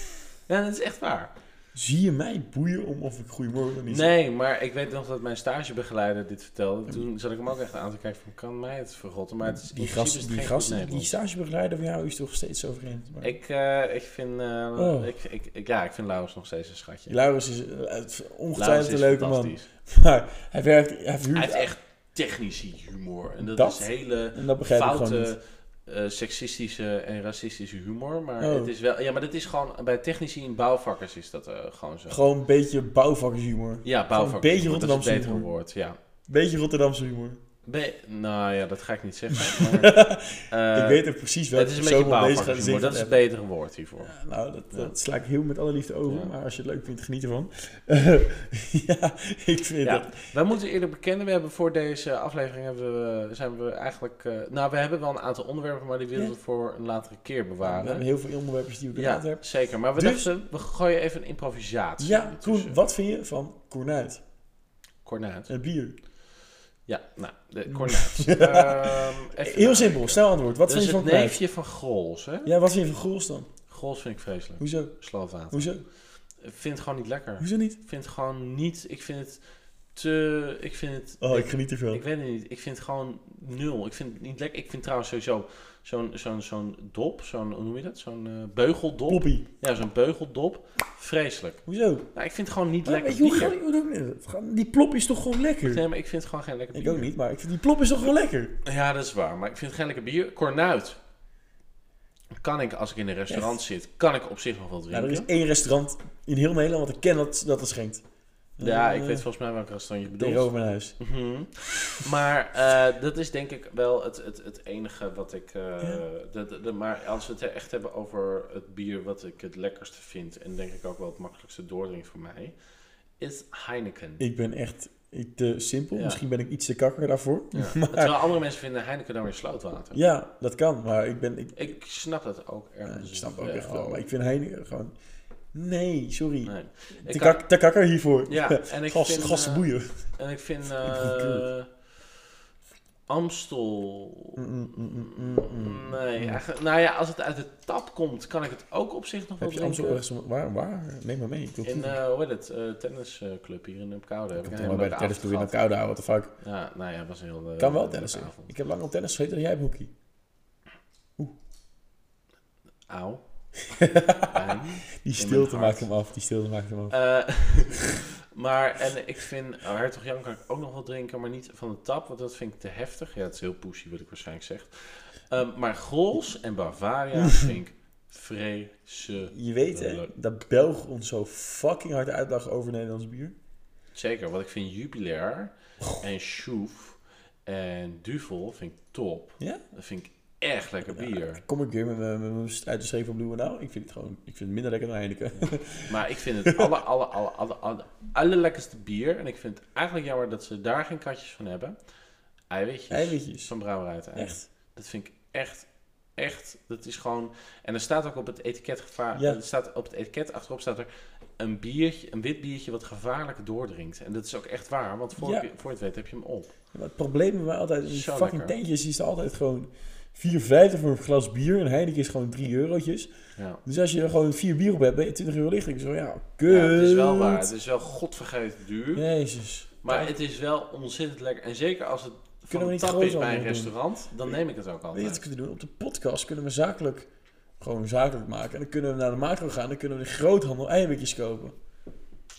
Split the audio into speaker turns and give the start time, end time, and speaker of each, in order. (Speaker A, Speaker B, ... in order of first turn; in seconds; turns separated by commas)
Speaker A: 0.5-1.3, Speaker B: 1.8-4.0, Speaker A: 3.9-11.1, Speaker B: 9.4-13.3, Speaker A: 13.2-17.2, Speaker B: 14.8-15.1, Speaker B: 17.1-21.7, Speaker A: 18.6-19.7, Speaker A: 21.3-32.2, Speaker B: 23.4-25.3, Speaker B: 28.4-28.7, Speaker B: 32.1-35.5, Speaker A: 33.8-36.0, Speaker B: 36.3-37.4, Speaker A: 37.6-40.0, Speaker B: 39.4-43.2, Speaker A: 40.5-41.0, Speaker A: 41.5-44.1, Speaker B: 44.0-50.2, Speaker A: 46.1-46.3, Speaker A: 49.8-58.1, Speaker B: 57.6-60.3, Speaker A: 59.0-62.8, Speaker B: 62.0-64.2, Speaker A: 65.0-65.5, Speaker B: 65.5-65.9, Speaker A: 66.8-72.5, Speaker B: 67.7-71.4, Speaker B: 72.4-73.5, Speaker A: 73.7-75.8, Speaker B: 74.6-74.9, Speaker B: 75.5-75.8, Speaker A: 76.3-79.4, Speaker B: 77.4-77.8, Speaker A: 79.9-93.6, Speaker B: 81.2-82.0, Speaker B: 89.1-89.5, Speaker B: 91.7-92.1, Speaker B: 92.8-95.8, Speaker A: 95.7-97.1, Speaker B: 96.7-98.6, Speaker A: 98.6-101.0, Speaker A: 102.3-105.3, Speaker B: 103.3-103.5, Speaker B: 104.9-108.0, Speaker B: 108.6-109.2, Speaker A: 108.6-122.5, Speaker B: 110.1-111.0, Speaker A: 123.2-124.2, Speaker B: 124.2-128.1, Speaker A: 125.9-126.2, Speaker A: 127.5-130.0, Speaker B: 129.9-131.7, Speaker A: 131.6-134.1, Speaker B: 132.9-134.9, Speaker B: 135.5-140.1, Speaker A: 136.4-137.4, Speaker A: 138.2-141.7, Speaker B: 140.7-141.5, Speaker A: 143.1-150.0, Speaker B: 144.4-146.4, Speaker B: 149.4-152.0, Speaker A: 151.6-155.6, Speaker B: 154.4-156.3, Speaker A: 156.4-158.5, Speaker B: 157.6-159.9, Speaker A: 162.9-163.2, Speaker B: 163.7-167.0, Speaker A: 163.8-165.9, Speaker A: 166.9-180.1, Speaker B: 179.3-183.3, Speaker A: 183.9-191.4, Speaker B: 190.9-196.7, Speaker A: 195.9-201.8, Speaker A: 202.5-216.5, Speaker B: 202.9-203.5, Speaker B: 204.2-204.4, Speaker B: 215.2-215.5, Speaker B: 216.7-223.1, Speaker A: 217.9-218.5, Speaker A: 223.4-223.6, Speaker B: 223.6-227.5, Speaker A: 226.5-229.1, Speaker B: 228.9-230.1, Speaker A: 229.8-235.2, Speaker B: 232.5-233.7, Speaker B: 234.9-237.1, Speaker B: 237.6-241.6